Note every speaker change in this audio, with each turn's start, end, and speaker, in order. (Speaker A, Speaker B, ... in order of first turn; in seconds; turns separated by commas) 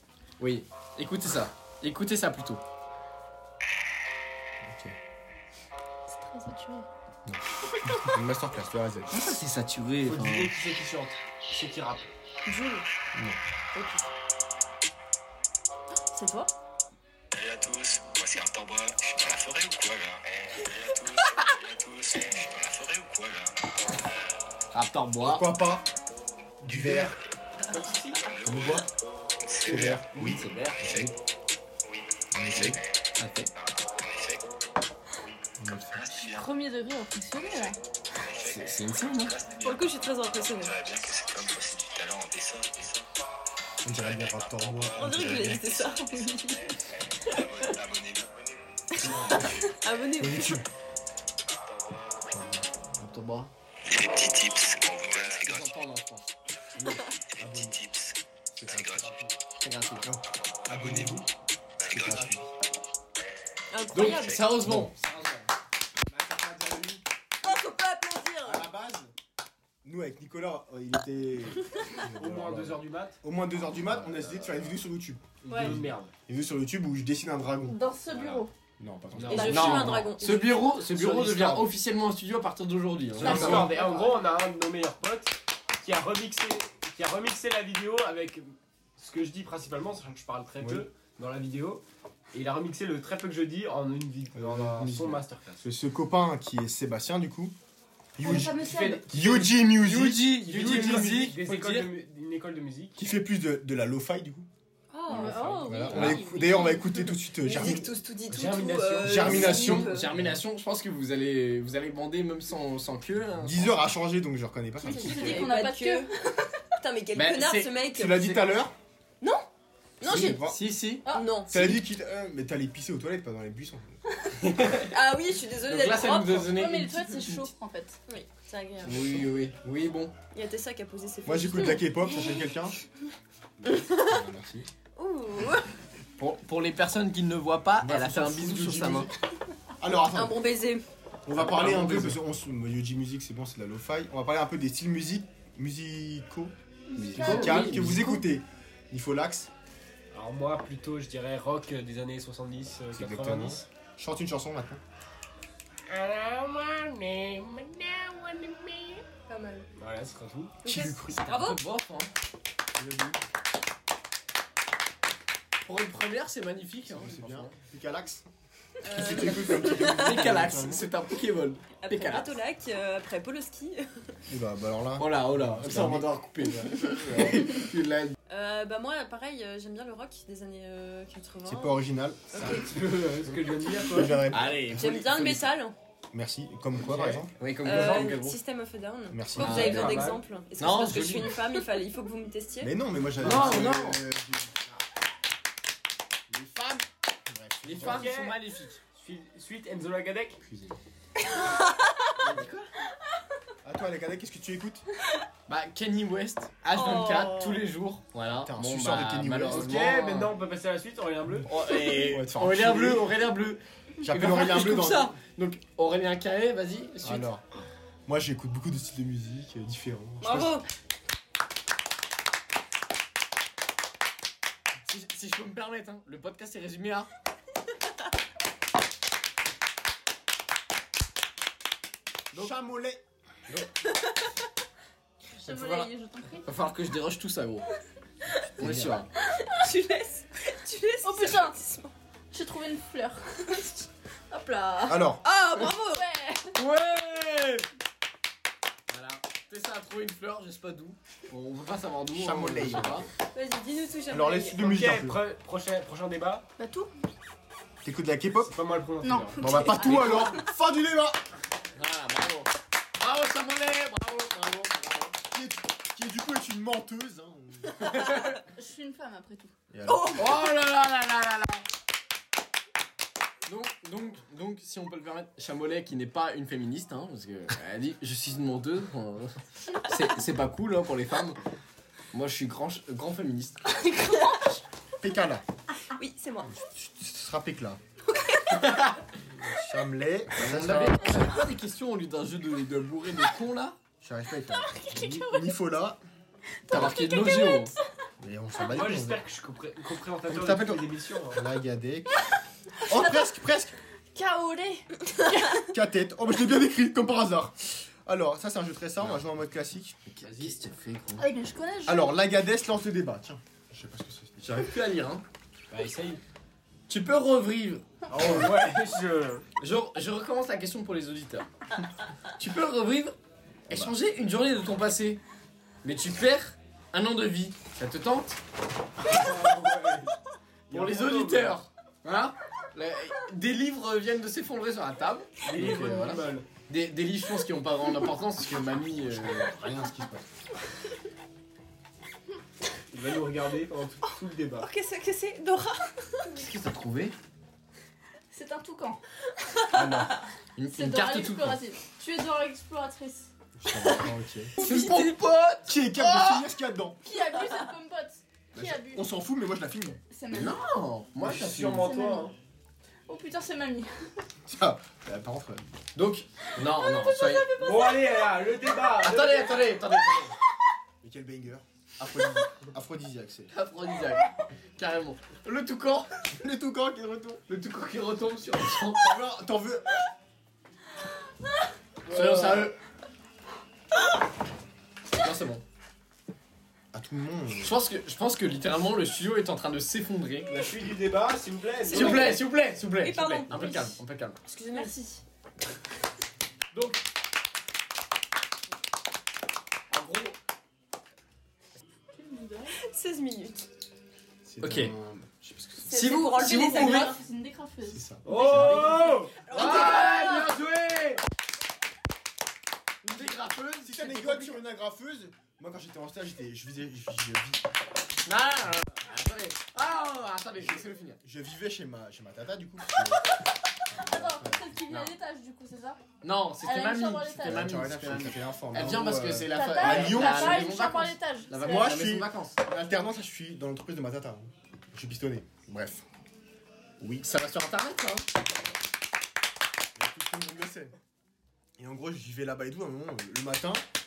Speaker A: 0.4-2.6, Speaker B: 4.6-5.0, Speaker C: 6.1-6.9, Speaker B: 7.2-9.1, Speaker A: 9.1-10.5, Speaker D: 10.0-12.1, Speaker E: 12.4-12.8, Speaker E: 13.7-14.1, Speaker C: 16.1-16.5, Speaker F: 17.3-23.6, Speaker A: 24.7-25.5, Speaker B: 25.2-25.9, Speaker B: 26.6-27.1, Speaker A: 26.7-27.1, Speaker D: 26.7-27.1, Speaker D: 27.7-28.2, Speaker F: 28.4-28.8, Speaker B: 28.4-28.9, Speaker F: 29.4-29.9, Speaker D: 29.6-30.4, Speaker B: 29.6-30.4, Speaker A: 29.7-31.1, Speaker F: 30.8-31.1, Speaker B: 32.4-32.8, Speaker A: 32.5-33.5, Speaker F: 32.5-32.8, Speaker F: 33.7-34.4, Speaker B: 35.6-36.0, Speaker F: 35.9-36.5, Speaker C: 36.2-37.8, Speaker F: 38.3-43.1, Speaker A: 38.4-39.3, Speaker E: 39.6-40.7, Speaker B: 43.8-45.7, Speaker F: 43.9-46.4, Speaker E: 44.9-46.7, Speaker F: 47.2-48.3, Speaker E: 47.3-47.7, Speaker E: 49.0-50.6, Speaker B: 49.0-49.6, Speaker B: 50.2-50.7, Speaker B: 52.3-52.7, Speaker A: 52.9-53.5, Speaker F: 53.9-55.8, Speaker A: 55.4-56.3, Speaker B: 56.8-57.8, Speaker E: 56.8-57.1, Speaker F: 57.4-59.1, Speaker B: 58.5-59.4, Speaker A: 59.6-60.1, Speaker B: 60.0-61.3, Speaker F: 60.7-61.2, Speaker F: 61.8-62.4, Speaker B: 61.8-62.4, Speaker E: 63.7-64.6, Speaker A: 63.9-65.5, Speaker B: 64.6-64.9, Speaker D: 66.1-66.8, Speaker B: 66.1-67.0, Speaker E: 67.4-68.7, Speaker B: 68.4-69.1, Speaker B: 69.8-77.8, Speaker D: 72.2-73.2, Speaker A: 74.0-74.5, Speaker D: 75.4-76.1, Speaker C: 77.7-78.5, Speaker D: 78.1-78.4, Speaker B: 78.8-80.1, Speaker D: 79.1-79.9, Speaker E: 79.3-80.7, Speaker A: 79.3-83.7, Speaker B: 80.9-81.7, Speaker D: 83.2-95.6, Speaker B: 83.2-83.7, Speaker E: 83.3-84.1, Speaker B: 90.6-90.8, Speaker B: 94.3-97.5, Speaker B: 98.2-101.3, Speaker D: 98.2-103.0, Speaker C: 98.2-99.0, Speaker A: 99.7-102.0, Speaker B: 103.0-104.5, Speaker E: 104.9-110.1, Speaker C: 105.1-106.8, Speaker B: 105.1-107.9, Speaker A: 105.1-106.3, Speaker D: 108.3-109.8, Speaker B: 109.0-110.4, Speaker A: 109.2-113.8, Speaker B: 113.4-115.5, Speaker C: 114.8-116.5, Speaker E: 114.8-116.1, Speaker E: 116.8-118.4, Speaker A: 117.1-117.8, Speaker B: 117.9-118.7, Speaker E: 120.0-120.5, Speaker B: 120.0-120.6, Speaker A: 120.0-121.1, Speaker E: 121.1-121.8, Speaker B: 121.5-123.8, Speaker A: 124.4-124.9, Speaker E: 124.8-126.5, Speaker A: 125.6-127.5, Speaker C: 126.5-128.0, Speaker E: 128.1-129.2, Speaker A: 128.8-130.1, Speaker E: 130.3-132.4, Speaker B: 131.2-132.8, Speaker B: 133.6-134.7, Speaker E: 133.7-134.2, Speaker E: 134.9-135.7, Speaker A: 136.2-139.1, Speaker B: 137.8-139.1, Speaker B: 139.8-140.4, Speaker E: 140.1-140.8, Speaker B: 141.2-146.5, Speaker A: 141.4-142.2, Speaker C: 146.9-147.8, Speaker A: 146.9-148.2, Speaker B: 147.1-149.5, Speaker D: 150.1-153.7, Speaker B: 152.9-154.8, Speaker D: 155.9-159.0, Speaker E: 159.3-159.7, Speaker D: 159.8-160.6, Speaker E: 160.6-161.6, Speaker B: 160.6-161.4, Speaker A: 161.2-162.1, Speaker B: 162.8-163.2, Speaker A: 165.6-167.6, Speaker B: 166.8-168.2, Speaker E: 168.8-170.4, Speaker B: 168.8-170.9, Speaker A: 169.8-172.3, Speaker E: 171.8-174.0, Speaker B: 174.3-176.1, Speaker A: 175.0-178.1, Speaker E: 178.3-181.8, Speaker B: 181.4-182.6, Speaker D: 182.3-184.3, Speaker E: 182.3-182.6, Speaker B: 183.9-184.7, Speaker A: 184.3-185.4, Speaker E: 184.7-185.8, Speaker B: 186.1-187.3, Speaker D: 186.8-188.1, Speaker A: 187.4-188.4, Speaker E: 187.6-192.7, Speaker B: 189.1-190.1, Speaker A: 189.4-191.4, Speaker D: 189.4-190.2, Speaker B: 192.6-194.6, Speaker A: 193.2-194.0, Speaker D: 193.2-193.7, Speaker B: 196.3-196.7, Speaker A: 196.6-196.8, Speaker B: 197.2-198.1, Speaker A: 197.6-198.8, Speaker D: 197.8-200.4, Speaker B: 200.5-200.8, Speaker E: 201.5-201.8, Speaker A: 202.2-202.7, Speaker B: 203.6-204.8, Speaker A: 205.5-210.3, Speaker E: 206.7-207.7, Speaker B: 208.4-209.9, Speaker D: 209.4-211.5, Speaker A: 211.4-217.3, Speaker B: 211.8-213.1, Speaker B: 214.0-215.2, Speaker B: 217.0-217.4, Speaker B: 218.1-220.6, Speaker E: 220.2-220.7, Speaker A: 224.8-227.1, Speaker B: 232.3-233.0, Speaker C: 235.4-236.5, Speaker A: 235.4-235.9, Speaker A: 236.4-237.7, Speaker A: 238.6-239.1, Speaker B: 238.6-239.0, Speaker E: 239.5-241.9, Speaker C: 241.0-241.6, Speaker C: 242.3-243.9, Speaker E: 244.3-246.1, Speaker B: 244.9-245.2, Speaker C: 245.8-246.6, Speaker A: 246.6-247.7, Speaker A: 248.9-253.1, Speaker B: 252.1-253.1, Speaker E: 253.3-254.7, Speaker B: 254.1-255.2, Speaker D: 254.6-256.4, Speaker C: 256.6-256.9, Speaker B: 257.8-258.5, Speaker D: 258.4-260.0, Speaker C: 259.0-260.4, Speaker B: 259.4-261.2, Speaker A: 261.8-265.1, Speaker B: 265.3-267.9, Speaker A: 267.8-268.4, Speaker C: 268.5-269.5, Speaker B: 269.7-270.3, Speaker E: 269.9-270.4, Speaker A: 270.1-271.6, Speaker A: 273.4-281.4, Speaker A: 282.1-283.6, Speaker C: 283.8-284.5, Speaker B: 285.0-285.4, Speaker E: 285.9-286.5, Speaker B: 286.4-287.8, Speaker E: 288.1-288.7, Speaker A: 288.6-288.9, Speaker B: 289.4-291.3, Speaker A: 290.3-293.8, Speaker B: 294.0-296.0, Speaker C: 294.6-295.5, Speaker C: 296.7-297.8, Speaker A: 296.7-297.7, Speaker B: 296.7-296.9, Speaker B: 298.2-299.2, Speaker D: 298.7-301.4, Speaker B: 300.3-302.2, Speaker C: 302.8-303.3, Speaker B: 302.8-303.7, Speaker C: 304.1-305.6, Speaker B: 305.5-310.0, Speaker A: 310.1-311.2, Speaker C: 311.2-312.1, Speaker B: 311.9-314.6, Speaker A: 314.4-315.2, Speaker D: 315.7-316.2, Speaker A: 316.9-318.4, Speaker D: 318.1-319.5, Speaker B: 318.2-318.5, Speaker A: 319.6-321.5, Speaker A: 322.4-323.1, Speaker A: 323.7-325.2, Speaker B: 323.7-323.9, Speaker A: 325.8-328.4, Speaker D: 329.1-330.1, Speaker A: 330.7-339.6, Speaker D: 330.7-331.6, Speaker D: 335.4-336.5, Speaker B: 339.1-340.2, Speaker D: 342.9-344.7, Speaker E: 344.6-346.4, Speaker A: 346.3-347.1, Speaker C: 348.3-349.0, Speaker B: 349.7-350.1, Speaker A: 349.8-351.6, Speaker C: 350.7-353.3, Speaker B: 353.6-354.5, Speaker A: 354.6-356.4, Speaker B: 355.7-357.0, Speaker C: 357.0-359.0, Speaker B: 358.5-360.0, Speaker C: 360.1-360.6, Speaker A: 360.3-361.9, Speaker D: 361.2-362.3, Speaker C: 361.8-362.3, Speaker C: 363.1-363.9, Speaker B: 364.4-365.7, Speaker A: 365.9-367.6, Speaker C: 367.1-368.0, Speaker D: 367.5-369.8, Speaker A: 369.0-370.3, Speaker B: 371.0-373.5, Speaker A: 373.5-376.2, Speaker B: 376.3-377.4, Speaker A: 377.5-379.2, Speaker B: 379.0-379.9, Speaker A: 382.1-382.8, Speaker D: 382.1-382.7, Speaker A: 385.1-385.6, Speaker B: 386.9-387.8, Speaker A: 387.6-390.5, Speaker D: 390.5-392.4, Speaker E: 391.9-392.4, Speaker A: 391.9-394.4, Speaker E: 393.0-395.1, Speaker C: 394.7-395.2, Speaker A: 396.7-397.0, Speaker A: 399.9-400.4, Speaker C: 402.1-402.8, Speaker E: 402.8-403.7, Speaker B: 404.4-406.0, Speaker A: 404.6-404.9, Speaker E: 405.9-407.1, Speaker A: 405.9-407.1, Speaker C: 406.3-408.4, Speaker B: 407.9-409.0, Speaker D: 408.2-409.6, Speaker E: 408.3-410.5, Speaker A: 409.4-411.2, Speaker A: 413.0-414.6, Speaker B: 413.8-417.6, Speaker A: 418.2-421.2, Speaker B: 420.6-423.2, Speaker B: 423.9-424.8, Speaker C: 423.9-426.0, Speaker A: 424.9-425.1, Speaker A: 426.2-432.6, Speaker C: 426.6-427.6, Speaker B: 427.4-430.7, Speaker C: 429.5-432.0, Speaker B: 431.6-436.0, Speaker B: 437.0-437.2, Speaker A: 437.2-438.2, Speaker B: 439.9-440.9, Speaker B: 441.8-443.8